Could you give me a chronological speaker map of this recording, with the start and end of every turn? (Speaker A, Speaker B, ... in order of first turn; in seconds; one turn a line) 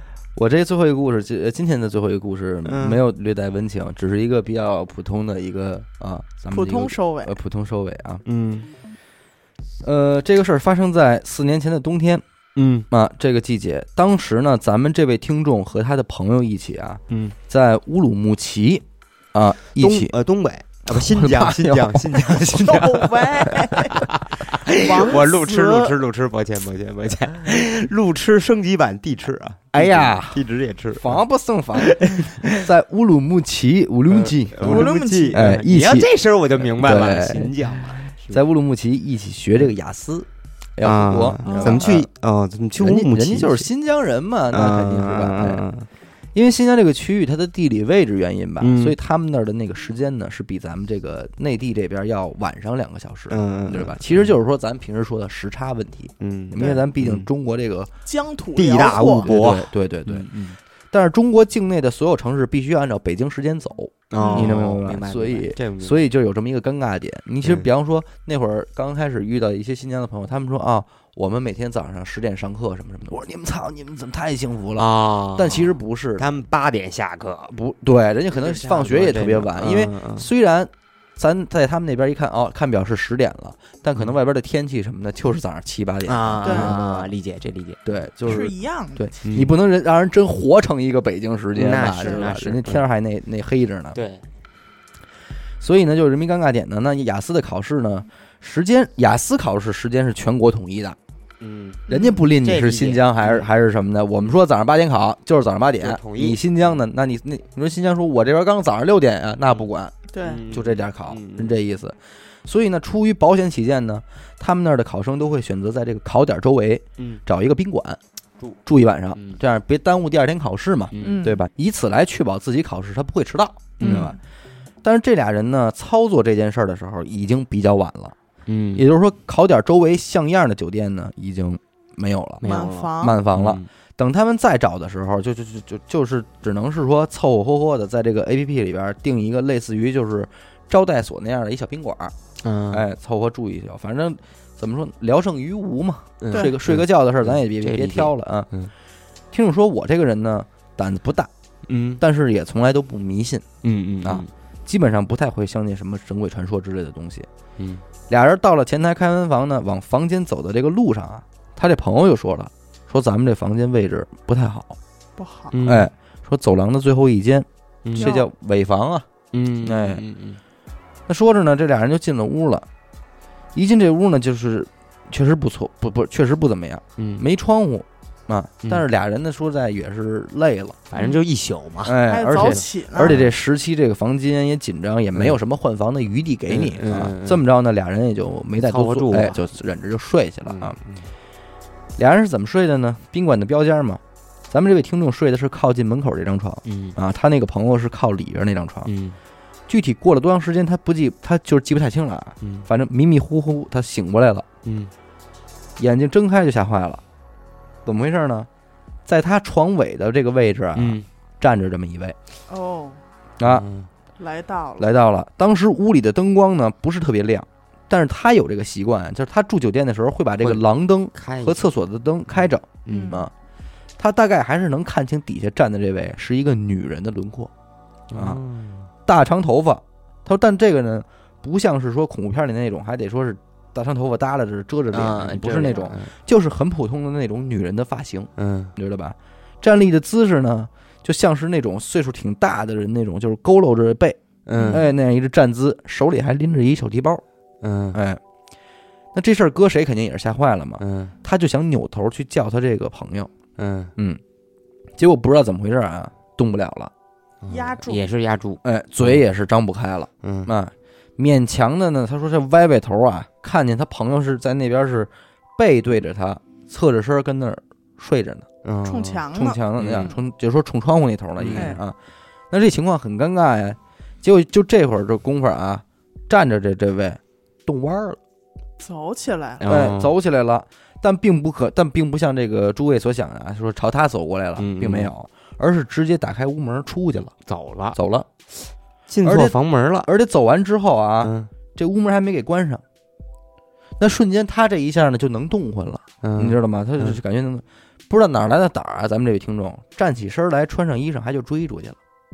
Speaker A: 0.4-8.2
Speaker B: 2.6-3.0
Speaker C: 6.5-7.3
Speaker B: 8.2-8.7
Speaker A: 9.8-12.2
Speaker B: 12.6-12.9
Speaker A: 12.9-20.1
Speaker B: 17.1-17.4
Speaker B: 19.8-31.2
Speaker A: 20.9-22.5
Speaker C: 22.6-25.9
Speaker A: 29.7-30.4
Speaker A: 30.9-32.0
Speaker B: 31.7-32.7
Speaker A: 32.6-37.6
Speaker B: 34.1-38.4
Speaker C: 34.6-35.4
Speaker A: 38.3-42.1
Speaker B: 40.8-43.7
Speaker C: 41.5-41.9
Speaker A: 42.8-45.6
Speaker B: 44.5-45.9
Speaker A: 46.4-57.9
Speaker B: 48.6-49.0
Speaker B: 53.3-54.4
Speaker B: 56.2-57.3
Speaker C: 56.6-56.9
Speaker C: 58.1-59.3
Speaker B: 58.6-60.6
Speaker A: 59.2-60.3
Speaker A: 60.9-76.3
Speaker B: 64.1-66.1
Speaker C: 64.2-64.6
Speaker B: 74.8-77.6
Speaker A: 77.5-87.1
Speaker B: 78.3-80.3
Speaker B: 86.1-87.8
Speaker C: 86.4-86.8
Speaker A: 87.8-94.0
Speaker C: 88.3-89.2
Speaker B: 89.2-89.5
Speaker B: 91.5-92.9
Speaker C: 92.0-92.2
Speaker B: 94.0-94.3
Speaker A: 95.6-101.0
Speaker B: 101.4-103.5
Speaker C: 101.9-102.2
Speaker A: 101.9-110.0
Speaker B: 105.8-106.5
Speaker C: 110.1-110.4
Speaker B: 110.2-111.6
Speaker A: 110.5-118.0
Speaker A: 118.7-124.2
Speaker B: 119.2-119.4
Speaker B: 120.9-121.3
Speaker C: 121.0-121.4
Speaker B: 123.8-124.1
Speaker C: 123.8-124.2
Speaker A: 124.8-128.2
Speaker B: 128.5-128.9
Speaker A: 128.8-142.2
Speaker B: 132.4-133.7
Speaker C: 132.4-133.2
Speaker B: 142.4-142.9
Speaker A: 142.7-148.5
Speaker B: 146.2-148.7
Speaker A: 149.3-151.3
Speaker B: 151.7-152.0
Speaker A: 152.0-153.4
Speaker B: 153.6-154.3
Speaker A: 154.0-157.3
Speaker B: 157.6-157.8
Speaker A: 158.1-164.8
Speaker C: 165.2-165.6
Speaker B: 165.5-165.9
Speaker A: 165.7-169.1
Speaker B: 167.8-168.1
Speaker C: 167.9-168.3
Speaker B: 169.3-170.4
Speaker A: 169.6-170.0
Speaker A: 171.1-172.7
Speaker A: 173.6-180.9
Speaker B: 177.0-177.2
Speaker B: 180.9-183.3
Speaker A: 181.8-190.8
Speaker C: 182.1-183.2
Speaker B: 186.5-187.4
Speaker B: 188.6-189.4
Speaker B: 190.4-191.1
Speaker A: 192.0-198.9
Speaker B: 196.7-196.9
Speaker B: 198.9-199.2
Speaker A: 199.7-204.5
Speaker B: 202.4-202.7
Speaker B: 204.7-204.9
Speaker A: 205.8-207.0
Speaker A: 207.8-208.5
Speaker A: 209.1-212.2
Speaker B: 210.8-211.1
Speaker C: 212.5-213.0
Speaker A: 213.4-213.7
Speaker B: 213.4-213.9
Speaker C: 214.2-214.9
Speaker A: 214.8-223.3
Speaker B: 221.1-221.7
Speaker B: 222.8-223.2
Speaker C: 222.9-223.3
Speaker A: 224.0-227.5
Speaker B: 228.1-228.9
Speaker A: 228.2-228.4
Speaker A: 229.1-247.2
Speaker B: 234.9-236.1
Speaker C: 235.6-235.9
Speaker B: 238.4-238.7
Speaker B: 244.5-244.9
Speaker C: 244.6-244.9
Speaker B: 247.6-248.0
Speaker A: 247.9-248.2
Speaker A: 249.1-253.3
Speaker B: 250.8-251.2
Speaker B: 253.6-253.9
Speaker A: 255.0-256.9
Speaker B: 257.4-259.2
Speaker C: 257.5-258.1
Speaker A: 258.6-268.5
Speaker B: 260.2-260.5
Speaker B: 268.6-269.2
Speaker C: 268.9-270.1
Speaker A: 269.3-271.9
Speaker B: 269.8-270.1
Speaker B: 271.4-271.7
Speaker C: 271.5-271.8
Speaker A: 272.5-278.2
Speaker C: 278.8-279.7
Speaker B: 279.6-280.1
Speaker A: 279.7-287.3
Speaker B: 284.6-285.1
Speaker B: 287.4-288.0
Speaker A: 287.9-288.3
Speaker B: 288.7-290.1
Speaker A: 289.2-292.8
Speaker B: 291.2-291.5
Speaker A: 294.0-302.0
Speaker B: 296.2-297.2